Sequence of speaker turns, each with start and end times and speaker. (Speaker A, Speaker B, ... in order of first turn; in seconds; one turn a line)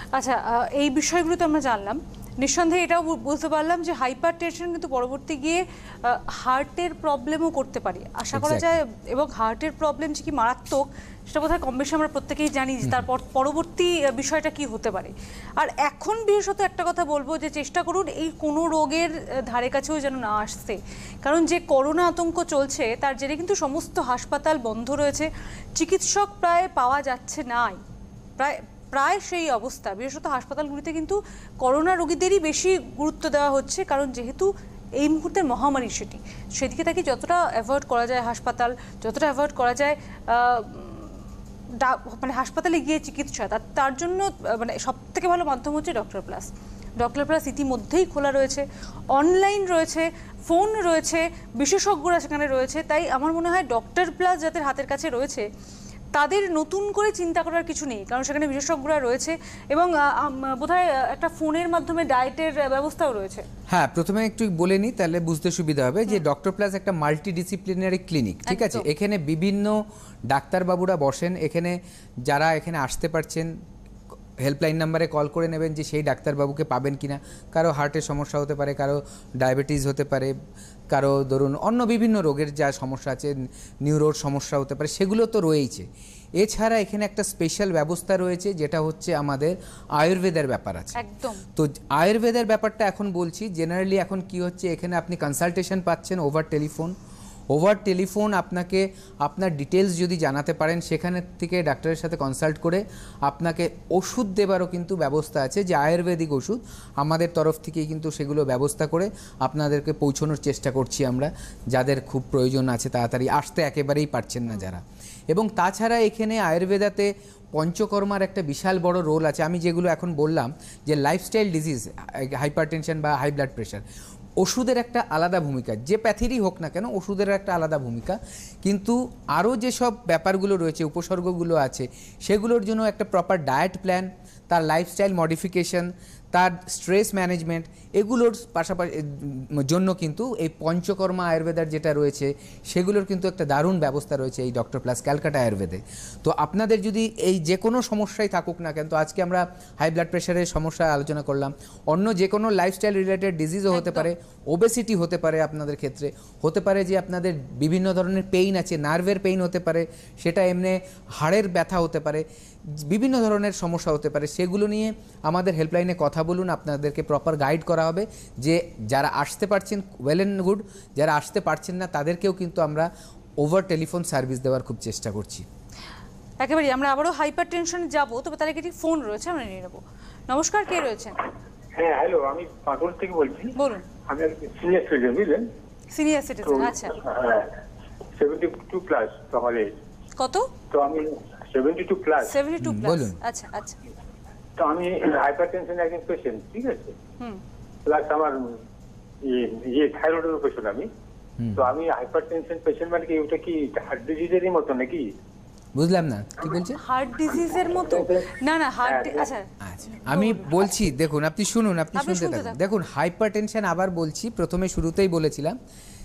Speaker A: 0.1-27.8
Speaker B: 8.3-8.7
Speaker A: 28.4-41.1
Speaker A: 41.7-55.5
Speaker A: 56.1-63.5
Speaker B: 63.7-73.5
Speaker A: 68.5-68.8
Speaker B: 74.4-80.3
Speaker B: 80.9-85.9
Speaker B: 86.4-91.0
Speaker A: 91.0-91.4
Speaker B: 91.5-96.9
Speaker B: 97.5-123.8
Speaker B: 124.4-172.9
Speaker A: 153.7-154.1
Speaker B: 173.4-175.4
Speaker A: 176.4-181.2
Speaker C: 181.7-183.5
Speaker A: 183.6-183.8
Speaker C: 184.1-185.5
Speaker A: 185.9-187.0
Speaker C: 186.5-187.6
Speaker C: 188.1-189.7
Speaker A: 190.2-190.5
Speaker C: 190.7-192.4
Speaker A: 192.2-193.8
Speaker B: 192.6-193.2
Speaker C: 194.6-196.9
Speaker C: 197.8-198.6
Speaker C: 199.2-200.9
Speaker B: 201.4-201.7
Speaker C: 201.5-205.1
Speaker B: 205.7-206.8
Speaker A: 206.7-210.6
Speaker C: 207.9-208.3
Speaker C: 208.8-209.3
Speaker B: 209.6-215.6
Speaker A: 212.0-212.6